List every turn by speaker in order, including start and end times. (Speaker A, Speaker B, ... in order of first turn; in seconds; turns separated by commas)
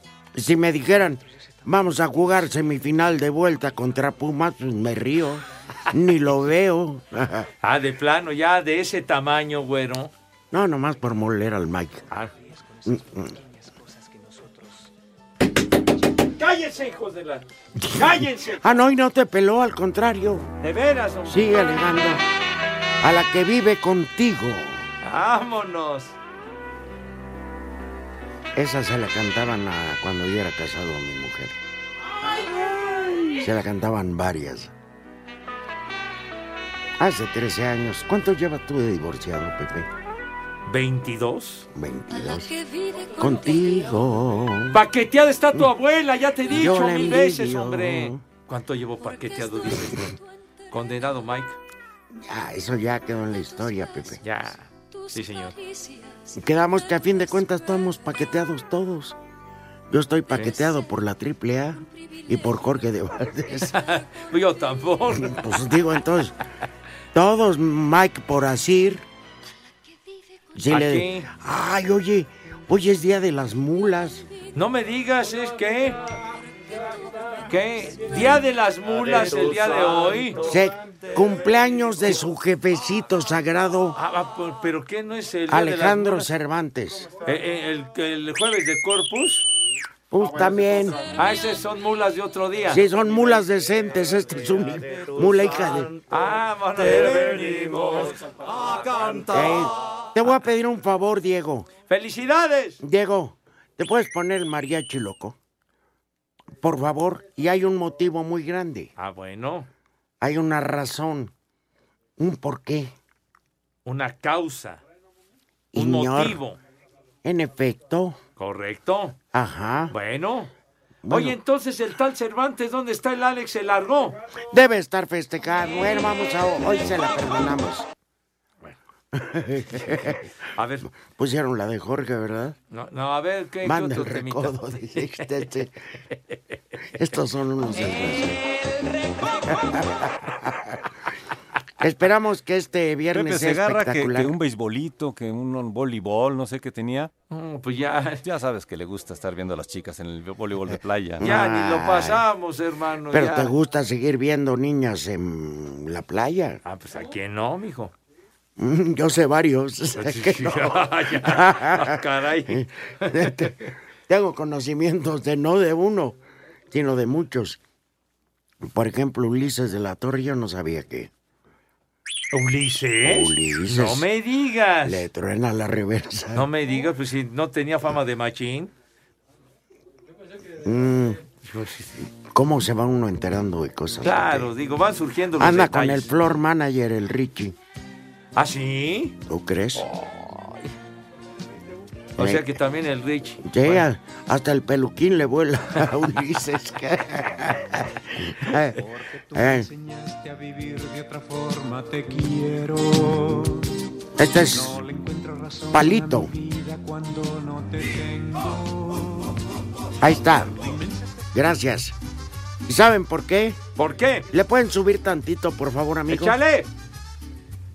Speaker A: 0.3-7.5, Speaker B: 7.6-10.1, Speaker A: 10.5-12.1, Speaker A: 12.8-13.3, Speaker B: 16.4-18.8, Speaker A: 17.8-20.5, Speaker B: 20.6-21.4, Speaker A: 21.3-22.2, Speaker A: 23.0-24.8, Speaker B: 25.0-26.1, Speaker A: 28.5-31.6, Speaker B: 32.3-33.3, Speaker A: 33.4-34.7, Speaker A: 37.0-39.9, Speaker B: 40.6-41.7, Speaker A: 41.7-42.5, Speaker C: 42.1-44.1, Speaker A: 43.2-44.8, Speaker B: 44.7-50.1, Speaker A: 46.5-48.2, Speaker C: 49.0-50.2, Speaker B: 50.7-51.6, Speaker A: 52.1-54.2, Speaker B: 54.2-55.5, Speaker C: 54.9-57.7, Speaker A: 56.4-59.1, Speaker A: 59.9-63.7, Speaker C: 61.9-62.8, Speaker B: 63.7-65.4, Speaker A: 65.1-66.4, Speaker A: 67.1-69.0, Speaker A: 70.5-74.2, Speaker B: 70.7-71.3, Speaker B: 74.5-76.0, Speaker B: 77.5-80.4, Speaker A: 80.4-84.0, Speaker B: 84.0-86.3, Speaker A: 85.5-87.1, Speaker B: 87.2-89.5, Speaker A: 90.1-91.0, Speaker B: 91.1-92.8, Speaker A: 92.7-95.9, Speaker B: 96.1-98.2, Speaker A: 99.3-101.7, Speaker B: 101.9-102.8, Speaker A: 102.8-105.4, Speaker A: 106.6-108.9, Speaker B: 109.0-109.7, Speaker A: 110.2-111.3, Speaker A: 112.2-112.9, Speaker B: 113.8-114.8, Speaker A: 115.7-116.4, Speaker B: 115.8-116.6, Speaker A: 117.2-118.2, Speaker B: 118.4-119.2, Speaker A: 119.3-119.9, Speaker B: 119.9-120.5, Speaker A: 121.0-121.4, Speaker B: 121.1-124.2, Speaker A: 124.5-127.9, Speaker A: 129.1-130.2, Speaker B: 130.5-130.9, Speaker A: 130.9-132.6, Speaker B: 132.7-135.3, Speaker A: 133.6-135.7, Speaker A: 137.0-138.4, Speaker A: 139.5-140.7, Speaker A: 141.8-144.3, Speaker D: 143.1-147.1, Speaker B: 147.3-148.2, Speaker D: 148.2-151.2, Speaker A: 151.2-152.2, Speaker B: 151.2-153.5, Speaker A: 153.1-156.6, Speaker B: 156.6-157.9, Speaker A: 158.6-166.2, Speaker B: 160.0-163.4, Speaker A: 166.7-167.6, Speaker A: 168.6-171.1, Speaker B: 172.3-175.1, Speaker A: 173.0-174.1, Speaker A: 174.8-176.4, Speaker B: 176.3-178.7, Speaker A: 180.6-181.2, Speaker B: 181.4-182.0, Speaker A: 182.1-184.5, Speaker B: 184.0-186.1, Speaker A: 185.4-187.5, Speaker B: 188.3-189.1, Speaker A: 189.2-189.8, Speaker B: 189.8-190.7, Speaker A: 192.2-192.6, Speaker B: 192.2-193.8, Speaker A: 193.4-198.8, Speaker E: 198.8-203.8, Speaker A: 199.3-199.7, Speaker A: 204.2-204.8, Speaker E: 204.5-209.3, Speaker A: 205.7-206.3, Speaker A: 210.0-210.6, Speaker E: 210.6-211.0, Speaker A: 211.3-211.9, Speaker A: 212.7-213.6, Speaker B: 213.8-214.3, Speaker A: 214.3-216.4, Speaker B: 216.1-216.7